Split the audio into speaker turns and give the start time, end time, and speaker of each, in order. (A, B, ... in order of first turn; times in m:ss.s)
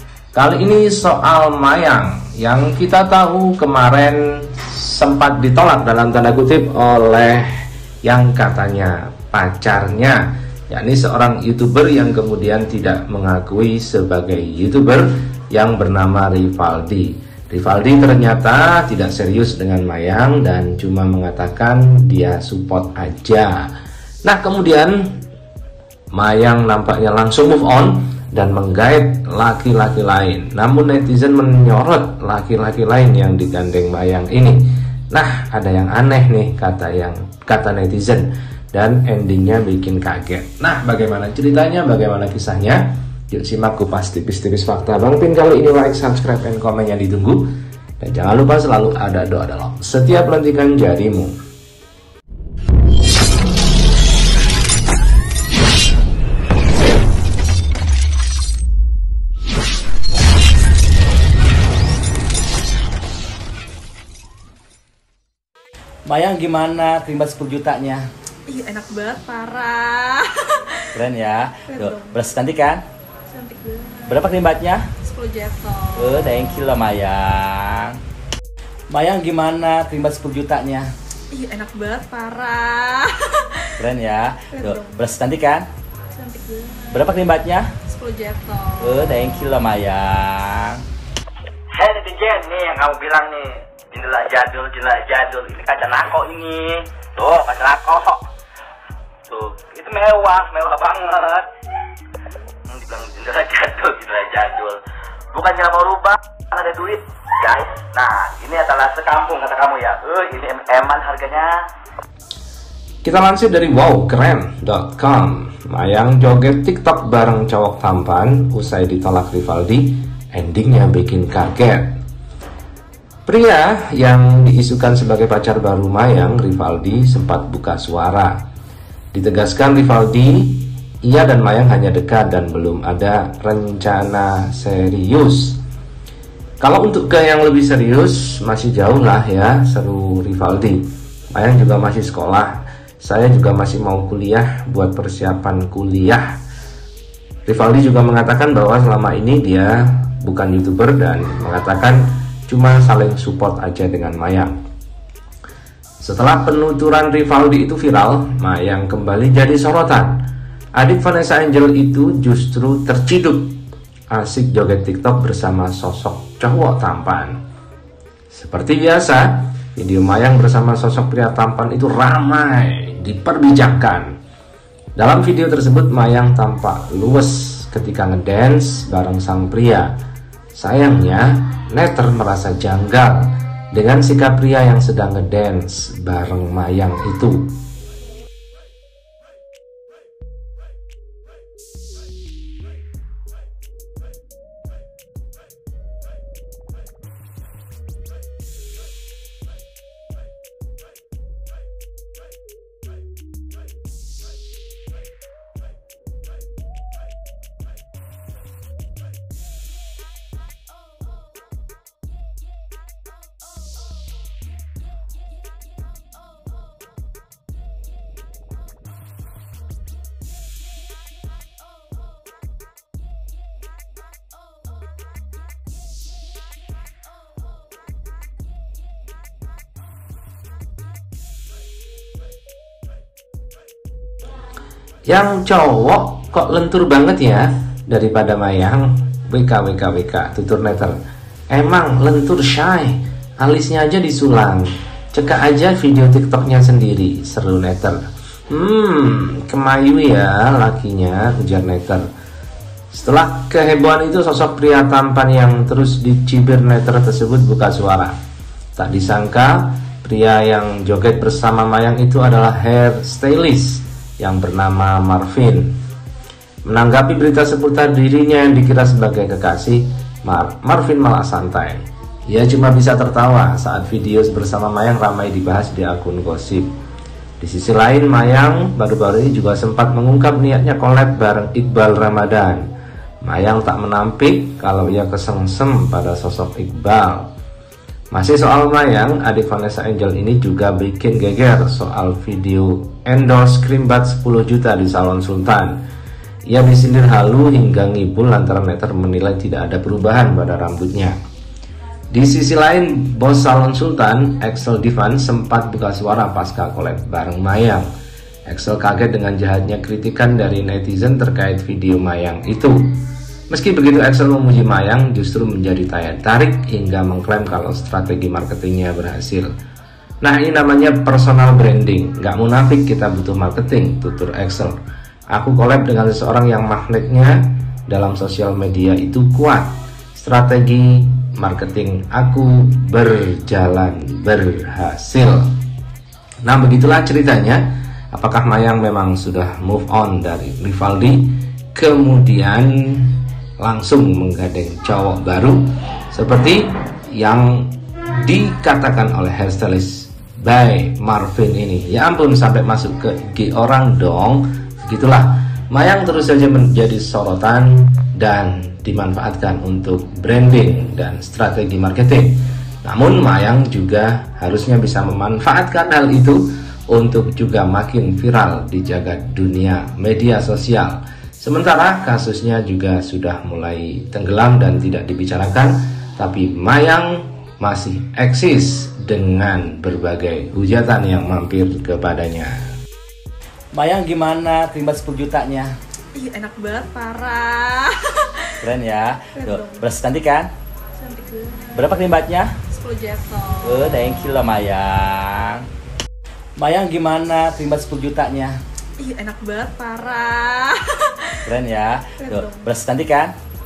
0:00.4-0:23.7 A
0:24.2-0:25.2 A
0:26.1-0:47.5 A
0:48.0-0:51.4 A
1:06.1-1:08.1 B
1:08.5-1:11.0 C
1:11.0-1:12.8 B
1:11.7-1:12.2 C
1:13.3-1:14.4 C
1:14.1-1:14.9 B
1:15.0-1:16.4 C
1:16.0-1:18.0 B
1:18.9-1:20.9 B
1:21.3-1:23.8 C
1:23.8-1:25.7 B
1:24.6-1:25.0 C
1:26.1-1:27.1 C
1:26.9-1:27.8 B
1:27.8-1:29.0 C
1:28.8-1:30.8 B
1:31.7-1:38.2 D
1:39.3-1:41.5 D
1:42.7-1:44.8 D
1:45.3-1:51.7 D
1:53.0-2:02.0 A
2:03.3-2:08.4 A
2:09.1-2:15.6 A
2:16.6-2:26.4 A
2:27.5-2:34.5 A
2:36.0-2:40.2 A
2:40.8-2:47.4 A
2:48.3-2:54.1 A
2:55.0-2:59.9 A
3:00.6-3:07.6 A
3:55.1-4:01.0 A
4:01.5-4:08.0 A
4:08.5-4:12.0 A
4:12.9-4:18.2 A
4:18.8-4:25.8 A
4:26.7-4:36.7 A
4:37.4-4:42.7 A
4:43.2-4:47.3 A
4:48.1-4:55.8 A
4:56.5-5:01.2 A
5:02.1-5:07.9 A
5:08.5-5:19.5 A
5:20.2-5:24.8 A
5:25.3-5:35.5 A
5:36.4-6:22.7 A
6:23.7-6:25.7 B
6:26.1-6:28.5 C
6:28.6-6:30.5 B
6:29.4-6:29.8 C
6:31.0-6:31.9 C
6:31.8-6:32.6 B
6:32.7-6:33.9 C
6:33.6-6:35.7 B
6:36.6-6:38.6 B
6:39.0-6:41.5 C
6:41.5-6:43.4 B
6:42.2-6:42.7 C